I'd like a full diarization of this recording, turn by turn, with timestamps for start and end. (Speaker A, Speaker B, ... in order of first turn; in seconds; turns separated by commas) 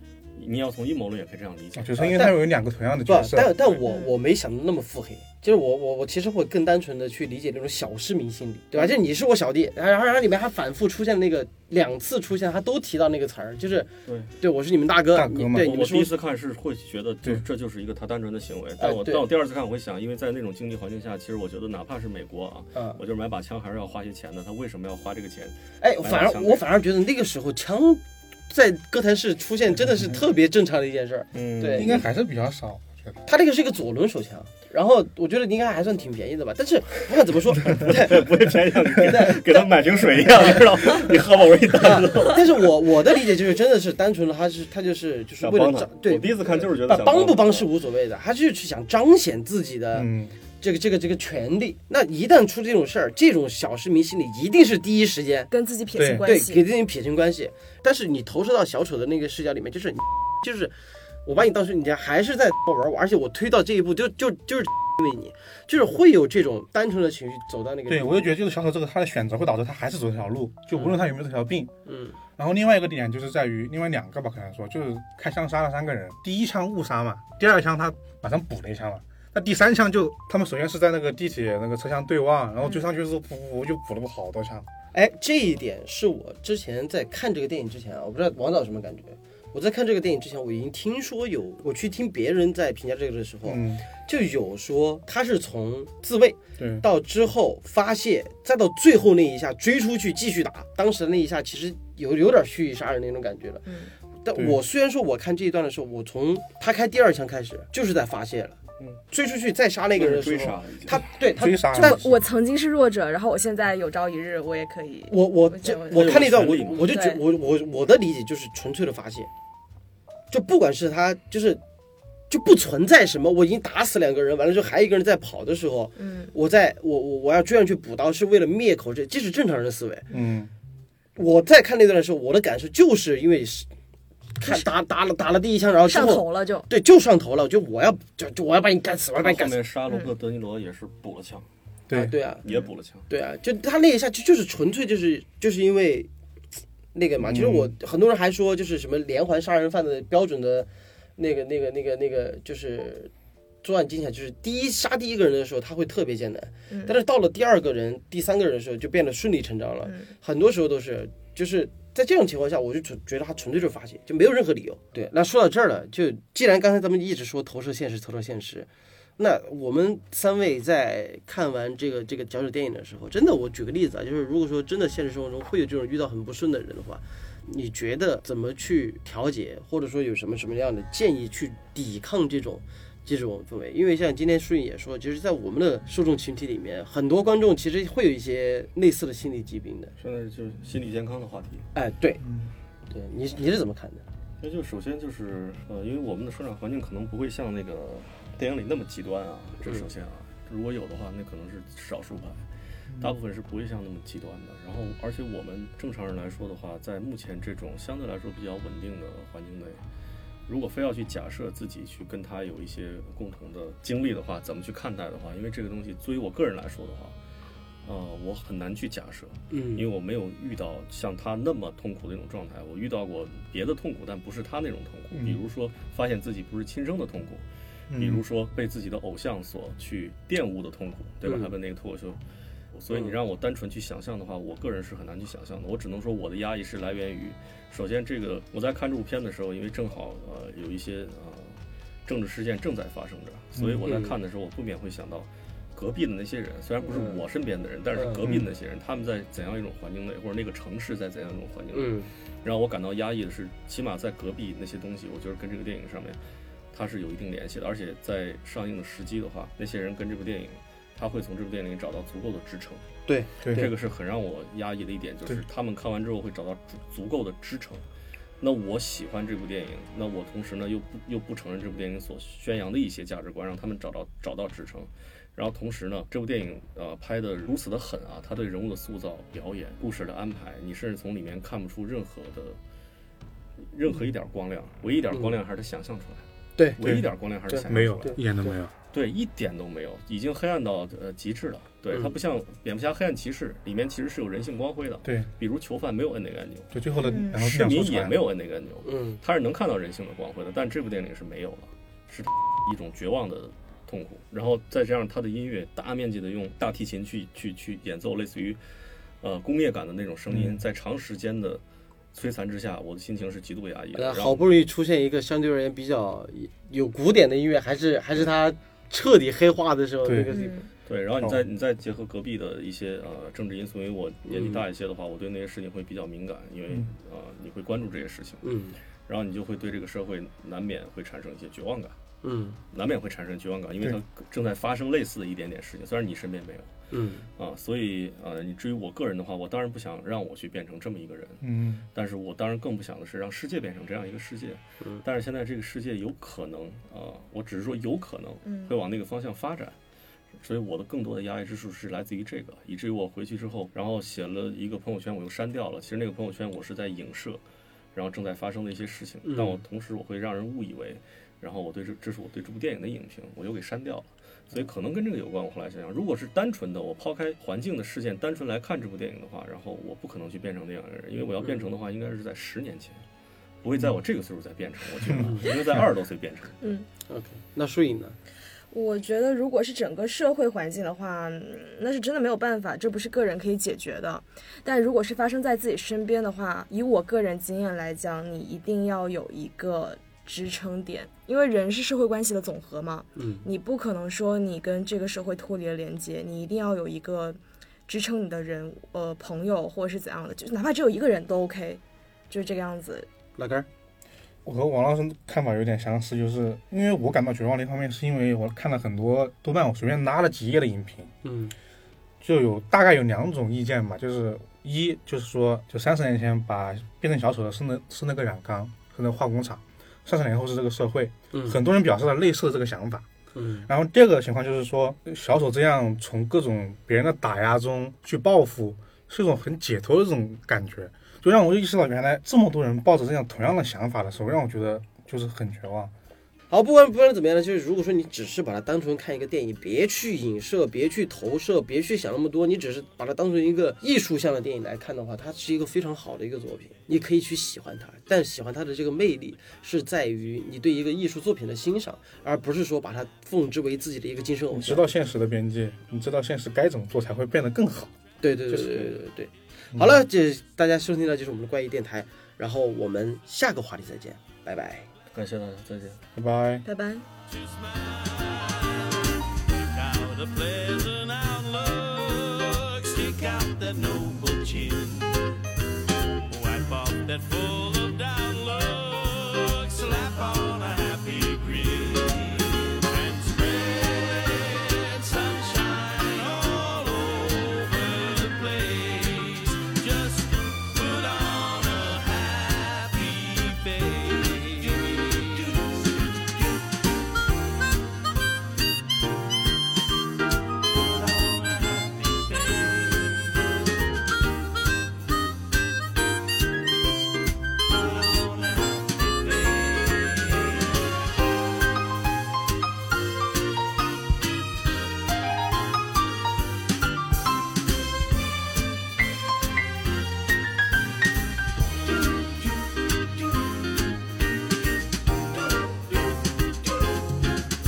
Speaker A: 0.3-2.2, Speaker B: 1.8-3.5, Speaker C: 2.0-2.3, Speaker C: 3.1-16.1, Speaker D: 3.8-4.1, Speaker A: 14.1-14.3, Speaker B: 15.1-15.7, Speaker A: 15.5-26.6, Speaker C: 18.8-19.3, Speaker C: 22.7-23.0, Speaker C: 25.8-32.0, Speaker A: 31.3-32.1, Speaker B: 31.7-33.2, Speaker C: 33.2-38.2, Speaker A: 37.6-42.6, Speaker C: 39.0-39.4, Speaker C: 41.8-50.1, Speaker A: 45.4-47.7, Speaker B: 49.9-50.3, Speaker C: 50.6-55.5, Speaker D: 55.5-56.6, Speaker B: 56.0-56.3, Speaker C: 56.2-60.7, Speaker C: 61.2-68.3, Speaker B: 67.9-71.7, Speaker C: 71.8-72.2, Speaker B: 72.4-84.7, Speaker D: 82.6-82.9, Speaker C: 84.9-103.7, Speaker B: 93.4-93.8, Speaker B: 96.6-96.8, Speaker D: 103.7-103.9, Speaker C: 104.2-108.6, Speaker C: 109.1-112.1, Speaker A: 110.0-111.1, Speaker B: 111.4-112.0, Speaker D: 111.7-116.3, Speaker C: 115.1-119.3, Speaker A: 115.9-116.9, Speaker D: 116.8-117.2, Speaker C: 120.3-121.6, Speaker C: 122.3-130.1, Speaker D: 126.0-126.3, Speaker B: 130.1-130.5, Speaker C: 131.2-133.7, Speaker C: 134.4-139.6, Speaker D: 135.8-136.7, Speaker A: 139.2-141.5, Speaker B: 141.9-142.1, Speaker C: 141.9-142.5, Speaker A: 142.4-143.1, Speaker D: 142.4-142.7, Speaker C: 143.1-146.1, Speaker C: 146.9-153.1, Speaker B: 147.2-147.7, Speaker C: 153.6-189.9, Speaker D: 156.7-156.9, Speaker A: 190.0-191.7, Speaker C: 191.7-192.2, Speaker B: 192.2-192.5, Speaker C: 192.9-194.0, Speaker A: 194.4-209.8, Speaker A: 210.5-217.2, Speaker A: 217.8-232.2, Speaker C: 219.5-219.8, Speaker B: 225.1-225.4, Speaker B: 227.9-228.2, Speaker C: 231.2-231.5, Speaker A: 232.7-256.2, Speaker B: 243.6-243.9, Speaker C: 243.8-244.1, Speaker C: 246.8-247.2, Speaker C: 247.9-248.2, Speaker C: 251.7-252.1, Speaker A: 256.7-262.9, Speaker C: 263.1-263.7, Speaker A: 263.4-267.9, Speaker A: 268.4-282.6, Speaker A: 283.6-286.2, Speaker C: 286.6-286.8, Speaker A: 286.8-288.1, Speaker B: 286.8-287.1, Speaker C: 287.5-288.6, Speaker B: 287.6-288.7, Speaker A: 288.9-296.7, Speaker B: 296.7-298.2, Speaker D: 297.0-297.4, Speaker A: 297.3-308.6, Speaker C: 298.8-299.2, Speaker A: 309.2-314.4, Speaker B: 310.3-310.6, Speaker C: 313.9-320.6, Speaker B: 320.0-320.4, Speaker D: 320.3-320.7, Speaker A: 320.9-328.5, Speaker C: 324.3-324.6, Speaker C: 328.4-328.8, Speaker A: 329.1-332.0, Speaker C: 332.2-332.6, Speaker A: 332.7-336.7, Speaker C: 336.9-337.3, Speaker A: 337.4-349.8, Speaker B: 341.4-341.8, Speaker D: 348.4-348.7, Speaker A: 350.4-357.4, Speaker A: 357.9-373.0, Speaker C: 359.2-359.6, Speaker A: 373.6-376.7, Speaker B: 375.0-375.9, Speaker C: 375.2-375.5, Speaker D: 376.6-376.9, Speaker C: 377.1-378.1, Speaker D: 378.7-403.1, Speaker C: 393.1-393.4, Speaker C: 403.4-403.7, Speaker B: 404.4-411.1, Speaker C: 411.2-411.5, Speaker B: 412.2-423.0, Speaker C: 421.3-421.6, Speaker C: 423.3-423.7, Speaker B: 423.7-435.9, Speaker C: 436.5-454.9, Speaker B: 454.5-457.9, Speaker C: 458.2-464.9, Speaker B: 458.5-458.9, Speaker B: 459.7-460.0, Speaker A: 465.1-466.0, Speaker B: 466.1-466.6, Speaker D: 466.6-467.1, Speaker E: 467.3-475.3, Speaker E: 476.3-496.7, Speaker E: 500.7-503.6, Speaker E: 507.6-510.9, Speaker E: 525.5-526.3